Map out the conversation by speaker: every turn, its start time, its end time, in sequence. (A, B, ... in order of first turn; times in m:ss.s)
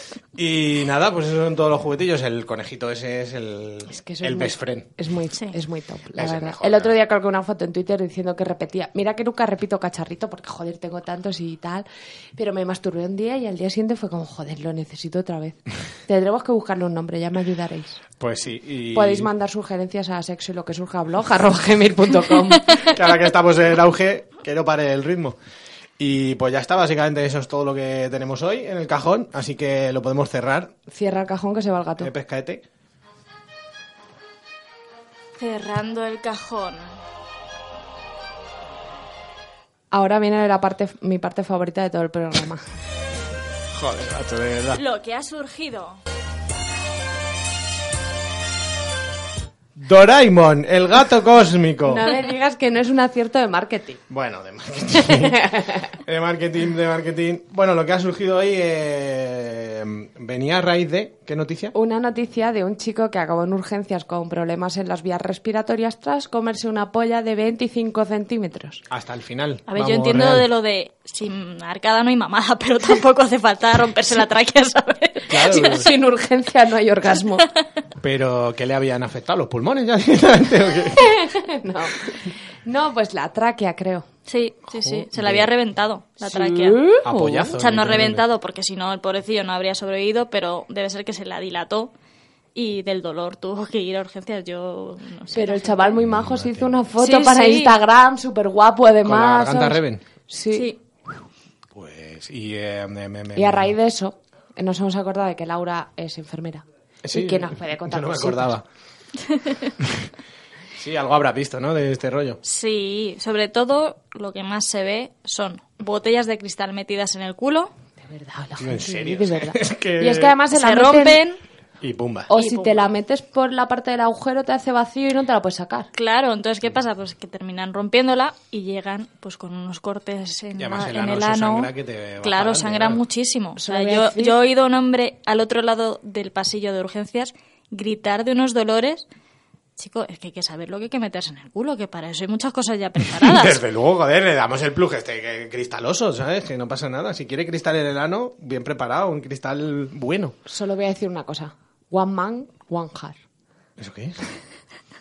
0:00.3-0:04.9 A
0:03.9-0:11.8 B
0:06.2-0:06.9 A
0:12.4-0:18.0 B
0:18.2-0:19.3 A
0:18.9-0:22.9 B
0:22.8-0:25.4 A
0:26.0-0:30.7 A
0:30.9-0:32.1 B
0:32.0-0:32.6 A
0:35.4-0:36.9 C
0:39.9-0:42.6 B
0:43.7-0:44.8 A
0:44.7-0:46.0 C
0:49.8-0:52.1 A
0:51.8-0:54.0 B
0:54.1-1:01.7 A
0:55.1-0:55.9 B
1:01.7-1:08.8 B
1:08.9-1:10.4 A
1:09.7-1:15.8 C
1:15.3-1:15.9 A
1:15.5-1:17.5 B
1:18.0-1:21.1 A
1:20.9-1:24.0 B
1:24.3-1:26.8 C
1:24.7-1:25.5 A
1:26.2-1:27.5 B
1:27.0-1:28.2 A
1:27.6-1:31.9 C
1:32.5-1:36.0 C
1:35.3-1:40.7 B
1:36.0-1:36.7 A
1:37.0-1:37.7 C
1:39.0-1:40.0 A
1:41.7-1:43.7 A
1:43.4-1:48.5 B
1:47.0-1:48.6 A
1:49.8-1:50.1 A
1:50.8-1:52.4 A
1:52.4-1:57.7 C
1:58.0-2:01.2 B
1:58.6-2:00.4 A
2:00.5-2:01.4 C
2:01.8-2:02.3 A
2:02.3-2:05.9 B
2:02.3-2:02.8 C
2:05.9-2:11.7 C
2:10.6-2:13.0 A
2:12.2-2:19.0 C
2:13.6-2:14.4 B
2:19.8-2:23.6 C
2:23.0-2:30.4 A
2:30.5-2:33.2 B
2:33.8-2:34.2 A